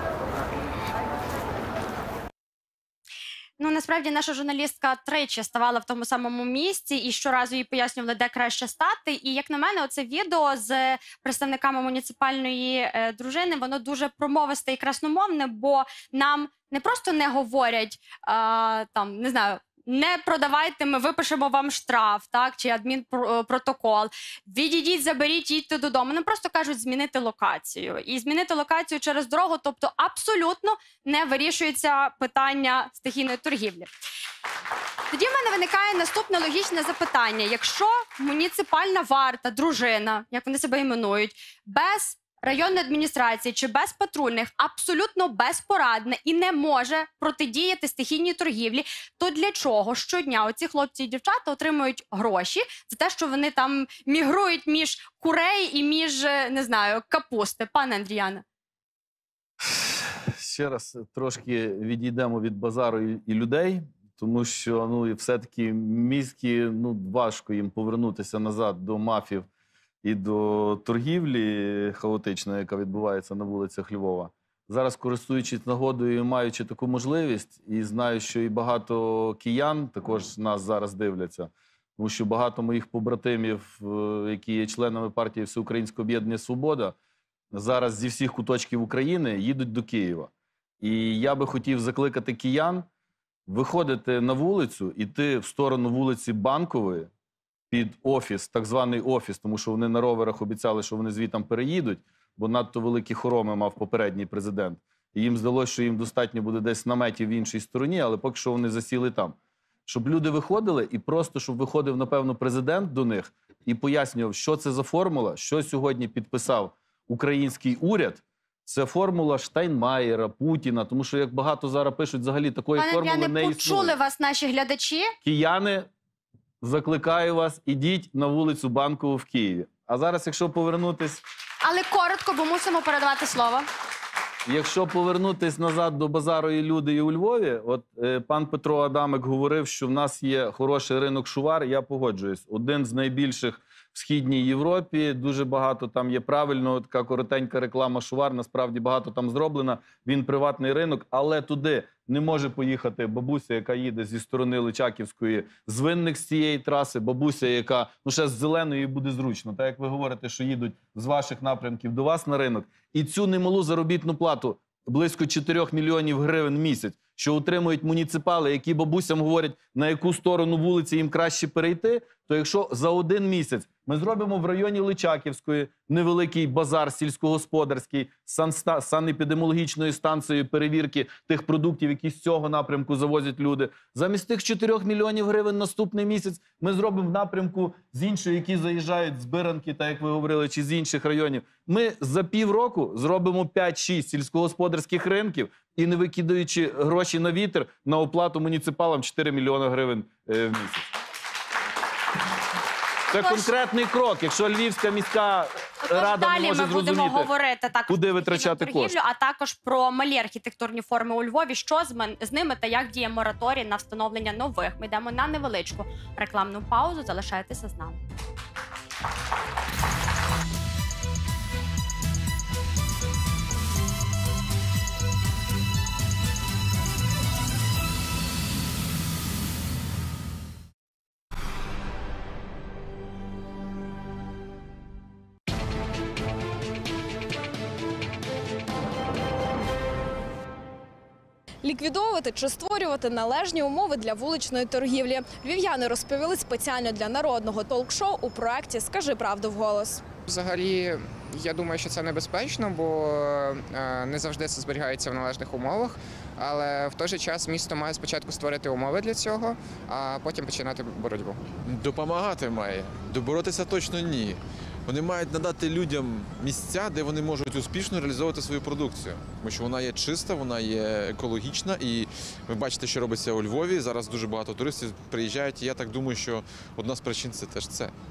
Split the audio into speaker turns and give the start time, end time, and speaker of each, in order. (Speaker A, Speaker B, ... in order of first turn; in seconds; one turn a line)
Speaker A: 3.6-33.9
Speaker A: 35.1-58.4
Speaker B: 59.6-69.5
Speaker B: 70.0-87.0
Speaker B: 87.5-90.3
Speaker B: 90.8-92.9
Speaker B: 93.5-97.1
Speaker B: 97.7-109.3
Speaker B: 109.9-124.0
Speaker A: 122.8-125.1
Speaker B: 125.2-125.9
Speaker B: 126.6-131.2
Speaker A: 131.6-133.7
Speaker B: 134.5-200.9
Speaker B: 203.1-207.3
Speaker A: 203.2-203.5
Speaker A: 205.8-218.0
Speaker B: 207.9-209.0
Speaker C: 241.6-250.1
Speaker D: 250.2-261.5
Speaker E: 261.6-277.9